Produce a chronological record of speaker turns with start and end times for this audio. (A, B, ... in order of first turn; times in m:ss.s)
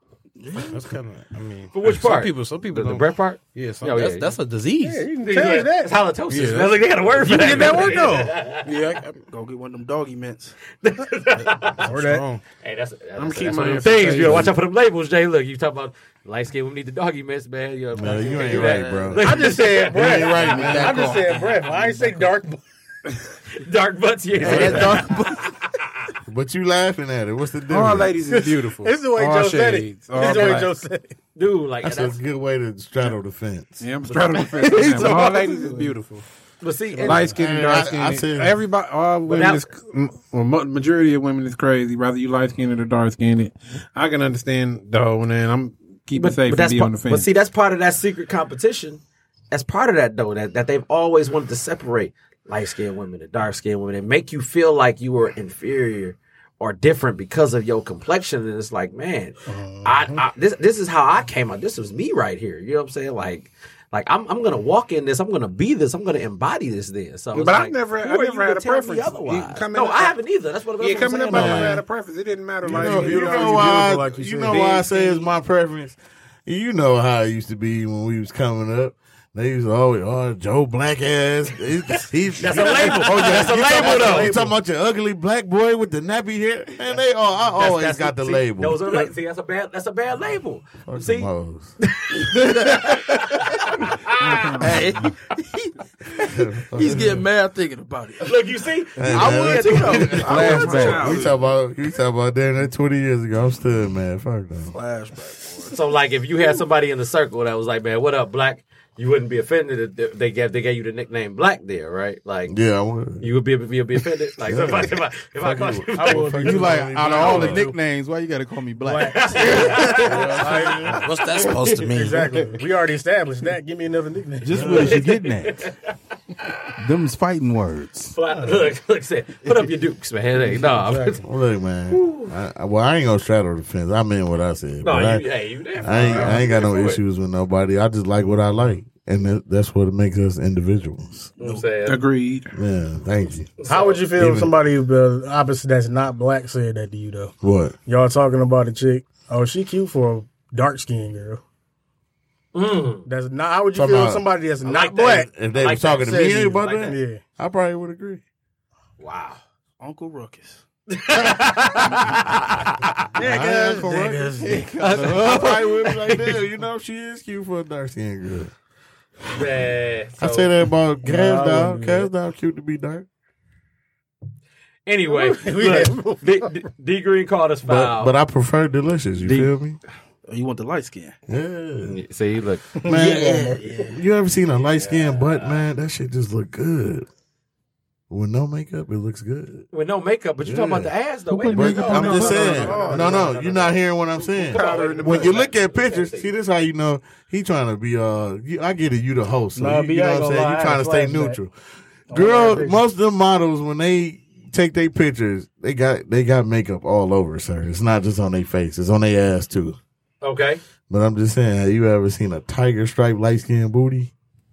0:00.4-0:00.8 A
0:00.6-0:05.1 B
0:01.7-0:04.3 C
0:04.8-0:06.0 D
0:05.2-0:08.6 C
0:06.3-0:06.8 B
0:07.2-0:08.3 D
0:07.3-0:07.8 B
0:08.6-0:10.6 A
0:08.7-0:09.1 B
0:10.8-0:11.9 C
0:11.4-0:12.4 B
0:11.8-0:12.2 D
0:12.6-0:21.0 C
0:13.2-0:14.5 E
0:14.2-0:14.5 F
0:17.9-0:21.1 F
0:18.3-0:19.3 A
0:19.2-0:22.6 D
0:20.2-0:21.6 A
0:23.6-0:25.2 C
0:24.4-0:25.5 A
0:24.4-0:25.0 F
0:26.3-0:28.1 F
0:27.7-0:30.7 E
0:28.3-0:31.1 D
0:30.2-0:30.7 C
0:31.4-0:32.2 C
0:31.8-0:33.8 F
0:33.8-0:36.2 E
0:34.1-0:35.3 C
0:34.7-0:35.9 A
0:36.6-0:37.3 C
0:37.0-0:47.3 E
0:37.1-0:38.6 F
0:39.3-0:39.6 C
0:46.1-1:11.8 C
0:59.5-1:00.2 D
1:07.3-1:10.1 E
1:10.8-1:13.8 E
1:11.3-1:11.8 F
1:12.6-1:29.1 F
1:12.6-1:14.6 D
1:14.5-1:15.2 E
1:22.4-1:24.4 C
1:23.0-1:24.5 D
1:27.5-1:31.3 C
1:30.8-1:31.8 F
1:31.8-1:34.6 C
1:32.3-1:33.0 A
1:34.2-1:34.8 E
1:34.6-1:38.4 A
1:36.2-1:37.2 F
1:38.2-1:41.2 C
1:39.0-1:44.7 F
1:39.0-1:41.3 A
1:40.3-1:41.2 E
1:40.4-1:41.0 G
1:40.6-1:40.9 B
1:44.7-1:45.8 A
1:45.7-1:52.6 C
1:52.5-1:53.3 F
1:53.2-1:56.4 C
1:54.4-1:57.7 F
1:55.9-1:57.8 D
1:56.4-2:00.6 G
1:58.8-2:01.0 D
1:59.1-2:01.9 C
2:01.0-2:02.4 B
2:01.9-2:05.0 D
2:04.5-2:05.6 G
2:04.5-2:05.0 F
2:04.5-2:05.0 A
2:04.7-2:05.7 C
2:06.8-2:08.1 G
2:08.1-2:11.2 C
2:08.3-2:08.6 D
2:10.8-2:11.1 D
2:11.0-2:15.2 F
2:11.9-2:12.3 C
2:14.8-2:17.0 C
2:15.8-2:21.3 F
2:21.4-2:22.0 C
2:21.8-2:22.5 E
2:22.5-2:23.5 F
2:23.6-2:24.0 C
2:23.6-2:27.3 D
2:24.2-2:24.5 F
2:27.4-2:27.7 F
2:27.8-2:31.4 D
2:32.5-2:33.0 C
2:33.0-2:35.3 D
2:33.7-2:34.2 F
2:34.6-2:37.0 C
2:35.3-2:38.2 F
2:36.0-2:37.2 D
2:39.0-2:39.4 C
2:39.8-2:40.6 A
2:40.9-2:43.0 C
2:43.1-2:44.7 D
2:43.2-2:44.4 F
2:44.7-2:46.4 C
2:45.0-2:48.5 F
2:49.3-2:50.5 C
2:50.2-2:53.1 F
2:51.0-2:52.1 D
2:54.8-2:58.1 C
2:55.1-2:56.5 D
2:57.6-2:59.8 F
2:59.2-2:59.5 C
3:00.3-3:01.1 A
3:01.3-3:01.9 F
3:01.8-3:02.7 C
3:02.8-3:03.6 D
3:02.8-3:07.1 F
3:02.9-3:04.0 A
3:04.8-3:05.6 C
3:08.1-3:09.7 F
3:09.7-3:16.3 C
3:10.4-3:10.9 F
3:11.3-3:13.3 E
3:11.5-3:21.5 F
3:12.3-3:13.3 D
3:14.5-3:15.4 E
3:19.6-3:21.4 D
3:22.1-3:22.8 D
3:22.1-3:29.8 F
3:30.2-3:30.6 C
3:30.9-3:34.1 F